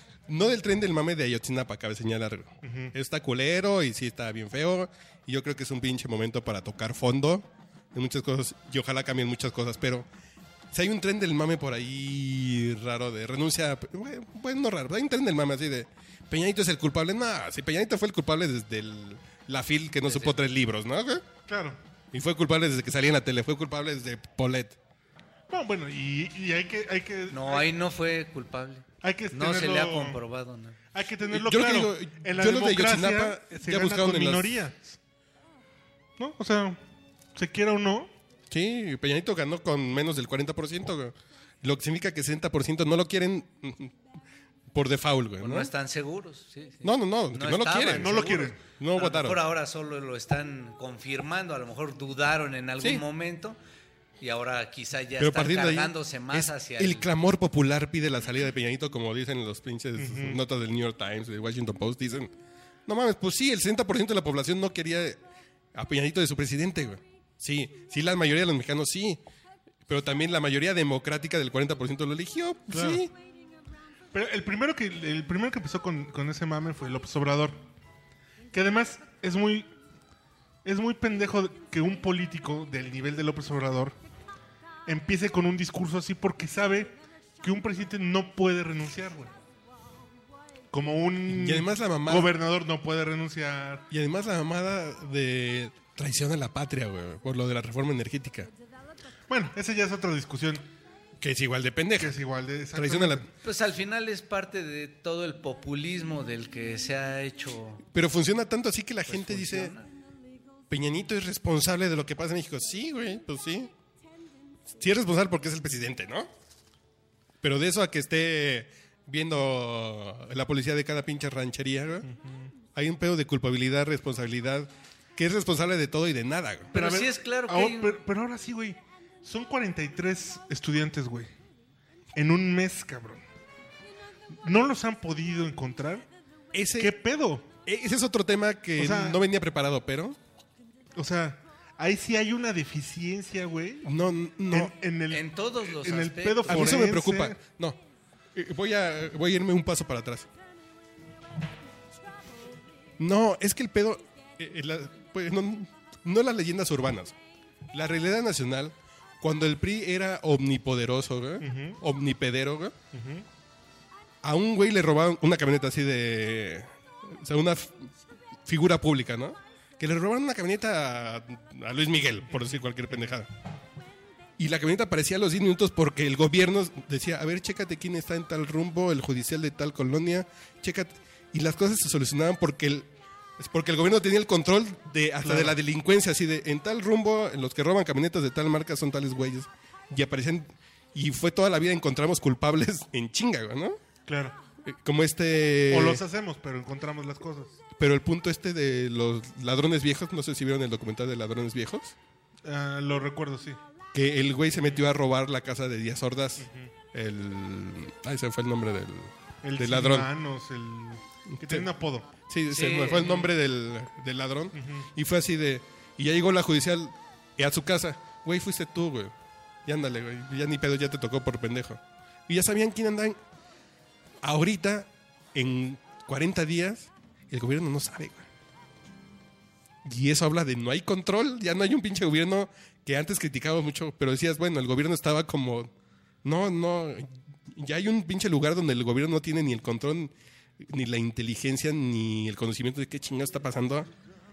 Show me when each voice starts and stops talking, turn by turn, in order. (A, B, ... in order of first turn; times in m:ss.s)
0:00.3-0:10.1 A
0:02.6-0:02.9 B
0:10.7-0:21.2 A
0:20.0-0:20.3 C
0:21.5-0:21.8 B
0:22.1-0:24.8 A
0:25.5-0:27.7 B
0:27.3-0:30.8 C
0:29.0-0:30.2 B
0:30.9-0:35.0 B
0:31.3-0:34.5 A
0:36.2-0:36.8 B
0:37.3-0:38.1 B
0:38.5-0:43.9 A
0:44.7-0:45.7 A
0:45.4-0:53.6 C
0:46.8-0:49.4 A
0:47.9-0:48.6 B
0:54.2-0:57.1 C
0:55.2-1:02.3 A
1:00.0-1:00.4 B
1:02.9-1:05.2 A
1:05.7-1:09.2 A
1:09.9-1:13.1 A
1:12.7-1:13.0 B
1:14.1-1:17.6 B
1:18.5-1:19.7 B
1:20.6-1:24.0 B
1:24.8-1:29.3 B
1:30.7-1:33.9 B
1:31.3-1:32.3 A
1:33.9-1:38.5 A
1:39.3-1:40.6 B
1:41.2-1:42.2 A
1:42.0-1:43.3 B
1:42.7-1:43.2 A
1:43.4-1:47.8 C
1:47.9-1:49.7 A
1:49.1-1:49.9 C
1:50.7-1:53.7 A
1:54.7-1:56.3 A
1:57.4-2:02.1 A
2:02.0-2:02.5 B
2:02.7-2:06.7 A
2:06.7-2:08.0 C
2:06.7-2:11.3 B
2:12.2-2:13.2 B
2:14.4-2:16.1 B
2:16.5-2:16.9 A
2:16.8-2:17.6 B
2:17.6-2:20.2 A
2:18.8-2:19.2 B
2:21.0-2:23.9 B
2:23.8-2:24.7 A
2:24.5-2:27.4 B
2:25.1-2:26.7 C
2:26.5-2:27.8 A
2:28.3-2:30.3 A
2:33.0-2:37.1 A
2:37.7-2:42.7 A
2:41.4-2:41.8 B
2:42.9-2:43.2 B
2:44.2-2:47.9 A
2:48.4-2:53.3 A
2:54.4-3:13.8 A
3:05.2-3:05.6 B
3:14.1-3:14.3 B
3:14.6-3:16.0 A
3:15.7-3:17.6 B
3:17.8-3:21.9 A
3:22.4-3:23.6 B
3:23.9-3:30.1 A
3:26.4-3:26.7 B
3:29.4-3:32.1 B
3:31.3-3:31.7 A
3:32.3-3:43.2 A
3:32.5-3:33.2 C
3:33.0-3:33.3 B
3:34.5-3:34.9 B
3:44.2-3:48.3 A
3:49.8-3:55.7 A
3:56.2-4:03.9 A